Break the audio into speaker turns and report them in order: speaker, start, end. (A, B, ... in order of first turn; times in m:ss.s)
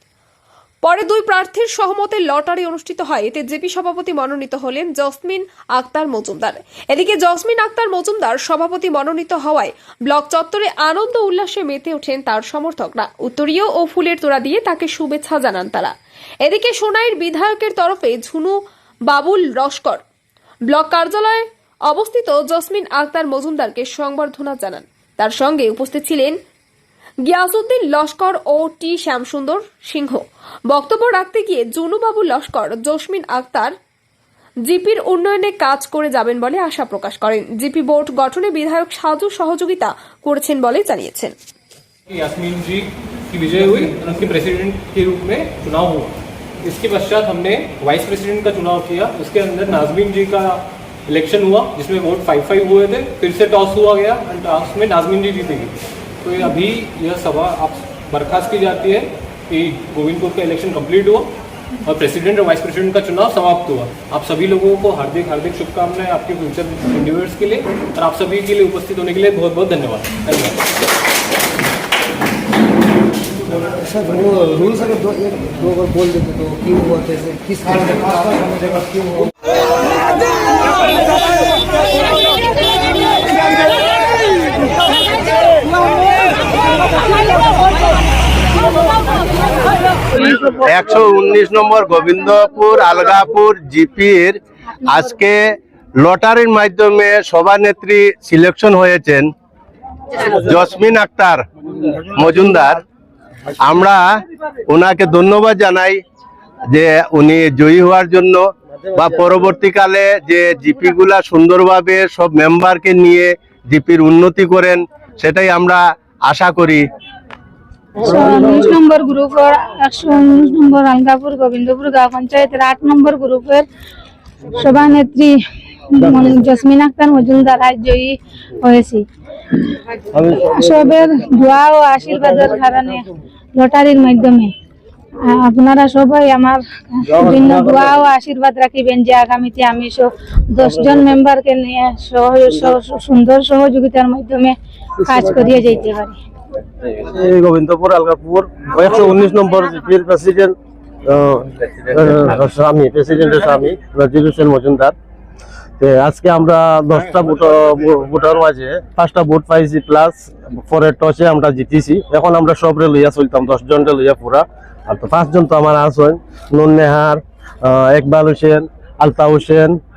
0:00.8-0:20.0 A
0:20.7-0:26.4 A
0:27.3-0:33.7 A
0:34.6-0:41.3 A
0:42.1-1:01.3 B
1:01.8-1:10.6 B
1:13.9-1:19.2 C
1:30.1-1:39.3 D
1:40.1-1:41.4 D
1:42.0-1:42.8 D
1:43.6-1:44.1 D
1:44.7-1:46.0 D
1:46.7-1:56.9 D
1:58.0-2:03.6 E
2:04.5-2:05.3 E
2:06.0-2:09.0 E
2:10.2-2:10.5 F
2:10.6-2:13.0 E
2:13.5-2:14.5 E
2:15.2-2:26.2 E
2:17.3-2:17.5 F
2:26.9-2:30.5 F
2:31.0-2:34.9 F
2:35.8-2:49.8 F